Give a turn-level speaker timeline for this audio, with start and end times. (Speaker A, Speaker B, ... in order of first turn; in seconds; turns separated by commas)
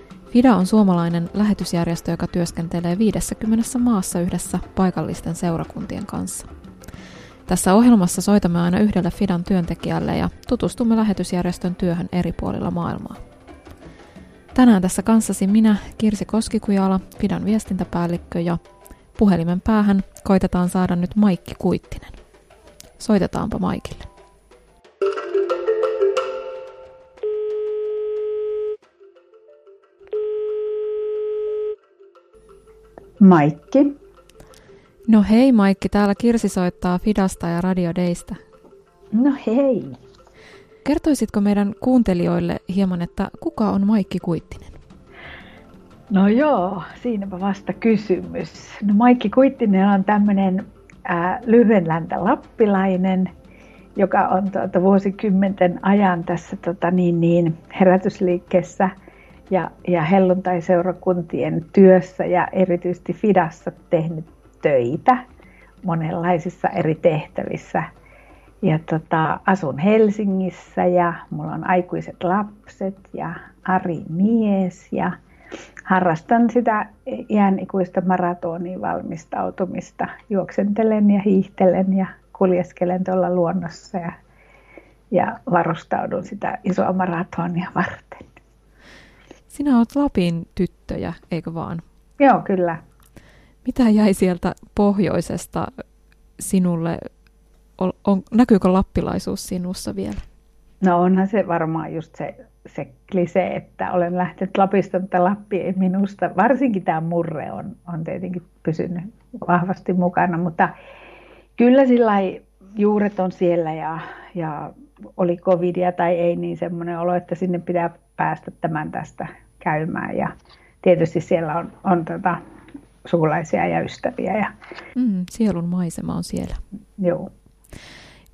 Speaker A: 0.3-6.5, Speaker A: 7.5-13.2, Speaker A: 14.5-18.6, Speaker A: 19.2-22.2, Speaker A: 23.0-24.1, Speaker B: 33.2-33.9, Speaker A: 35.1-38.4, Speaker B: 39.1-40.0, Speaker A: 40.8-44.8, Speaker B: 46.1-53.3, Speaker B: 54.0-58.9, Speaker B: 59.5-65.2, Speaker B: 65.8-67.8, Speaker B: 68.6-75.1, Speaker B: 75.9-84.2, Speaker B: 85.1-88.2, Speaker A: 89.5-91.8, Speaker B: 92.2-92.8, Speaker A: 93.6-95.7, Speaker A: 96.4-97.0, Speaker A: 97.8-100.2, Speaker B: 100.8-110.7, Speaker B: 111.6-120.3, Speaker B: 120.8-122.4, Speaker B: 123.0-124.5, Speaker A: 125.0-126.6, Speaker B: 127.0-127.3